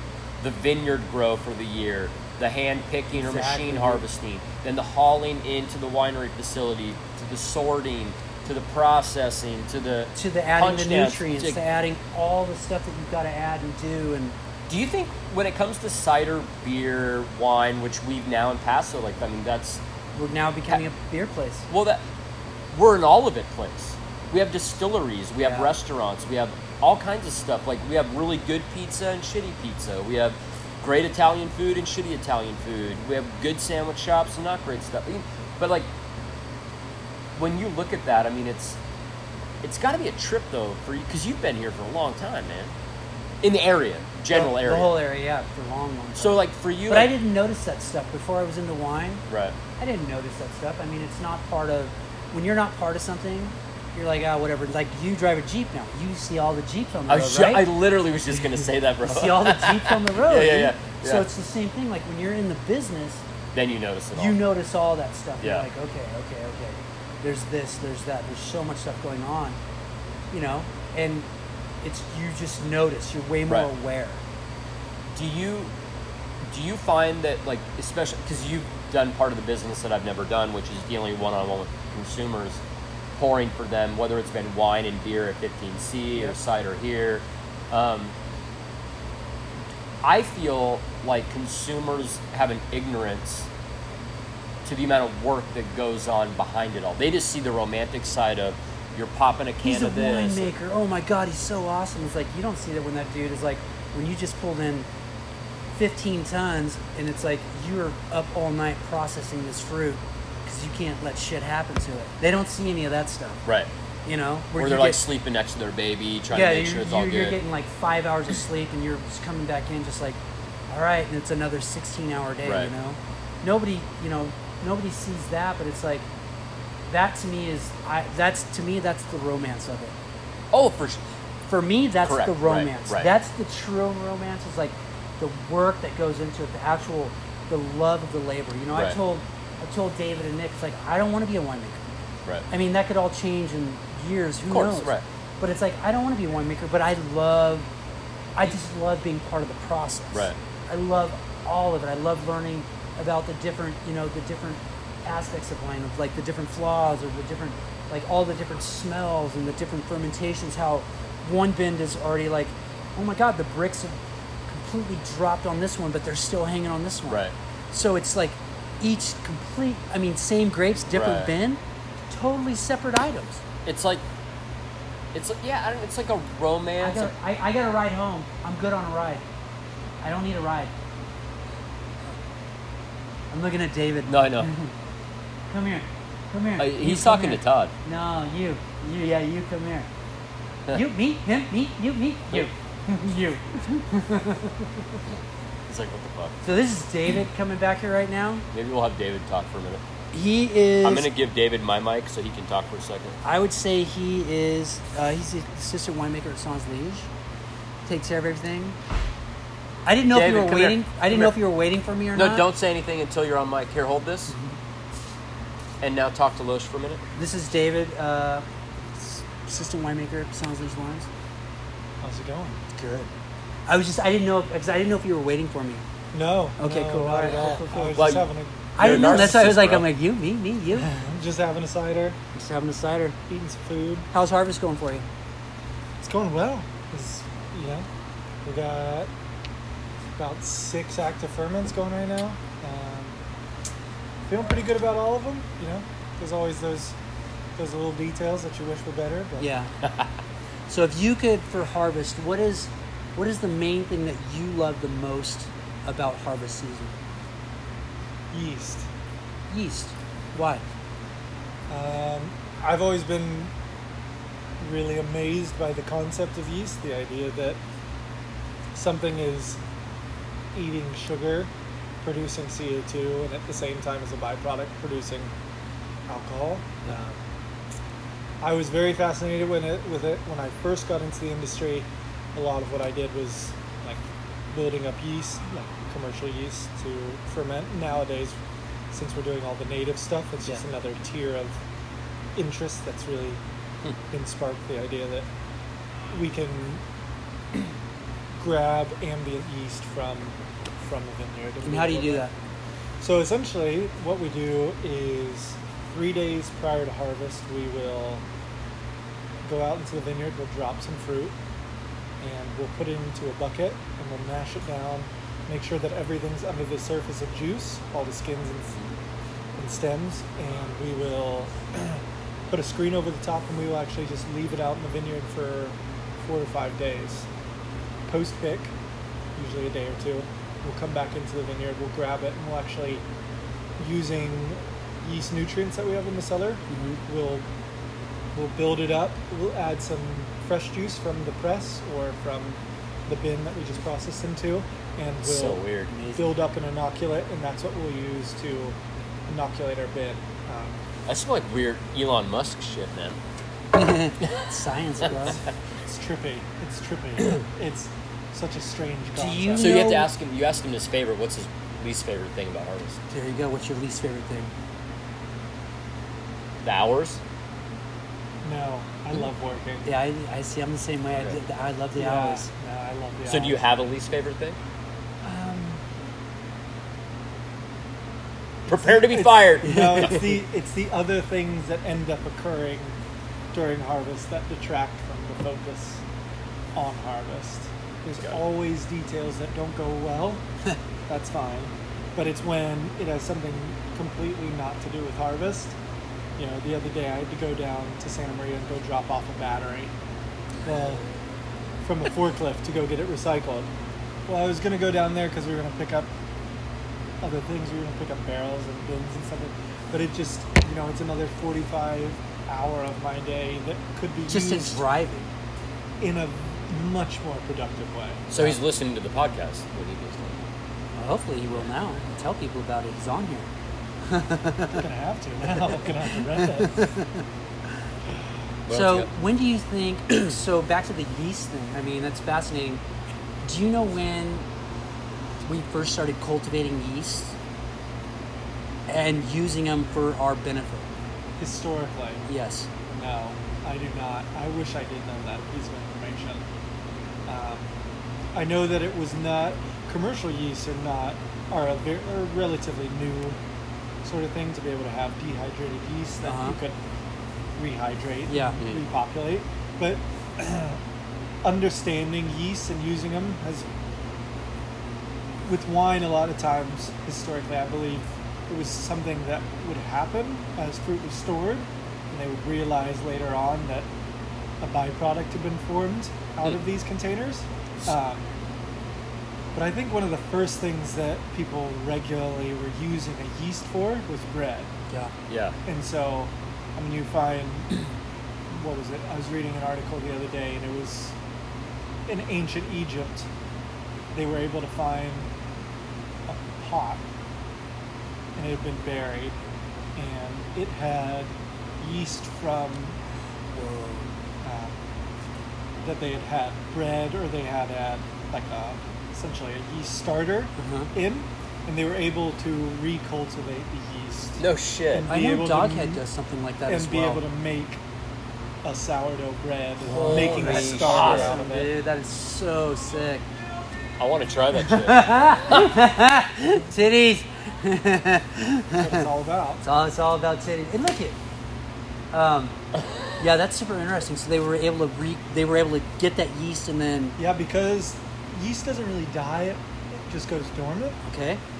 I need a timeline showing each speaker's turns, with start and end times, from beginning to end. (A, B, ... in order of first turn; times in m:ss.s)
0:00.4-0:11.6 A
0:03.1-0:04.0 B
0:10.2-0:14.4 B
0:14.7-0:19.8 A
0:20.2-0:21.7 B
0:21.7-0:22.0 A
0:22.7-0:35.9 A
0:25.4-0:25.7 B
0:37.4-0:38.8 A
0:39.6-0:42.8 A
0:43.4-0:44.9 A
0:44.3-0:49.2 B
0:46.2-0:47.1 A
0:49.3-0:49.6 A
0:49.8-0:57.7 B
0:57.1-1:01.3 A
0:59.0-1:03.2 B
1:03.5-1:04.4 A
1:04.1-1:09.6 B
1:05.4-1:05.7 A
1:10.3-1:11.3 B
1:11.8-1:14.2 B
1:15.1-1:15.7 A
1:16.4-1:22.6 A
1:23.2-1:28.2 A
1:30.0-1:33.5 A
1:34.6-1:40.5 A
1:39.6-1:44.9 B
1:45.7-1:53.4 B
1:54.1-1:55.0 B
1:54.6-1:57.4 A
1:56.3-2:00.2 B
2:00.7-2:06.1 B
2:02.5-2:02.7 A
2:06.9-2:10.0 B
2:10.5-2:11.0 A
2:11.5-2:21.8 B
2:12.0-2:13.1 A
2:22.5-2:27.7 B
2:24.5-2:25.0 A
2:28.4-2:53.4 B
2:47.1-2:47.3 A
2:50.9-2:51.3 A
2:53.6-2:54.0 A
2:55.1-2:57.1 A
2:56.8-2:59.2 B
3:00.0-3:00.7 B
3:03.3-3:04.7 B
3:04.1-3:04.5 A
3:05.5-3:09.9 B
3:06.6-3:07.7 A
3:10.7-3:15.0 B
3:15.7-3:16.4 A
3:16.4-3:18.4 B
3:18.5-3:19.8 A
3:20.1-3:21.1 B
3:20.8-3:23.2 A
3:23.2-3:27.1 B
3:27.9-3:28.8 B
3:29.9-3:32.5 B
3:30.1-3:31.4 A
3:32.2-3:34.3 A
3:34.3-3:34.6 B
3:35.8-3:37.0 A
3:37.2-3:38.4 B
3:39.0-3:41.1 B
3:42.0-3:42.6 C
3:42.8-3:43.1 B
3:43.7-3:45.8 B
3:46.1-3:49.5 C
3:46.6-3:48.2 B
3:48.0-3:49.8 A
3:48.8-3:50.9 B
3:50.8-3:52.2 C
3:52.3-3:53.2 B
3:53.3-3:54.1 C
3:54.1-3:55.1 B
3:56.0-3:57.9 C
3:58.4-3:59.1 C
4:00.2-4:03.2 C
4:04.3-4:07.0 C
4:07.6-4:09.5 C
4:09.4-4:09.7 B
4:09.8-4:10.1 A
4:10.7-4:17.0 B
4:18.3-4:18.9 C
4:19.5-4:20.6 B
4:21.7-4:23.5 C
4:24.6-4:27.6 C
4:28.7-4:29.6 C
4:30.5-4:31.5 C
4:32.0-4:35.3 C
4:36.1-4:37.2 C
4:38.4-4:48.4 C
4:48.9-4:51.5 C
4:52.4-4:53.4 C
4:54.1-4:55.3 C
4:56.1-4:56.8 C
4:58.4-5:02.3 C
5:01.6-5:02.3 B
5:03.0-5:08.2 C
5:09.4-5:11.3 C
5:12.2-5:18.8 C
5:19.6-5:27.3 C
5:28.1-5:28.7 C
5:29.4-5:33.0 C
5:33.8-5:37.5 C
5:36.7-5:37.0 B
5:38.3-5:45.6 C
5:45.2-5:45.9 A
5:45.9-5:46.2 B
5:46.2-5:48.8 C
5:49.3-5:50.8 C
5:51.1-5:53.2 A
5:53.7-5:55.4 B
5:55.9-5:59.8 C
5:59.2-6:00.1 B
5:59.6-6:03.0 A
6:03.1-6:04.5 B
6:06.6-6:07.2 A
6:08.4-6:09.9 C
6:09.8-6:12.5 B
6:12.0-6:13.6 C
6:13.3-6:14.6 A
6:15.2-6:15.8 C
6:18.7-6:20.2 A
6:18.7-6:23.0 C
6:19.6-6:20.3 B
6:23.5-6:26.0 C
6:26.8-6:30.4 C
6:31.1-6:35.8 C
6:36.4-6:39.9 C
6:40.6-6:41.1 C
6:41.8-6:43.7 C
6:44.3-6:46.1 C
6:47.2-6:54.8 C
6:54.3-6:55.3 B
6:56.0-6:58.3 C
6:58.3-7:00.4 A
7:01.0-7:03.5 B
7:04.0-7:04.8 B
7:04.8-7:06.9 C
7:06.4-7:07.2 B
7:08.7-7:09.1 A
7:08.7-7:12.8 B
7:13.4-7:14.4 B
7:15.4-7:17.4 B
7:18.9-7:20.9 B
7:21.4-7:22.3 C
7:22.3-7:22.7 B
7:22.9-7:26.4 C
7:27.3-7:27.7 C
7:28.3-7:33.4 C
7:34.0-7:36.8 C
7:36.2-7:36.6 B
7:37.6-7:40.8 C
7:38.3-7:38.6 B
7:41.4-7:43.7 C
7:45.4-7:53.9 C
7:54.6-7:58.2 C
7:59.6-8:04.7 C
8:05.3-8:05.6 A
8:05.7-8:07.9 C
8:08.5-8:11.1 C
8:12.1-8:13.3 C
8:14.1-8:15.3 C
8:16.3-8:17.0 C
8:18.4-8:19.4 C
8:20.0-8:23.0 C
8:23.5-8:24.1 B
8:24.4-8:24.8 C
8:25.8-8:34.4 C
8:30.6-8:30.9 B
8:34.4-8:35.1 A
8:34.9-8:36.0 C
8:35.1-8:37.2 B
8:36.7-8:37.8 C
8:38.6-8:41.7 C
8:39.8-8:43.2 B
8:39.9-8:41.4 A
8:44.0-8:45.7 A
8:44.6-8:49.0 B
8:48.8-8:49.6 C
8:49.6-8:51.2 B
8:52.1-8:52.5 B
8:53.2-8:57.2 B
8:57.2-9:01.0 C
9:01.1-9:01.4 B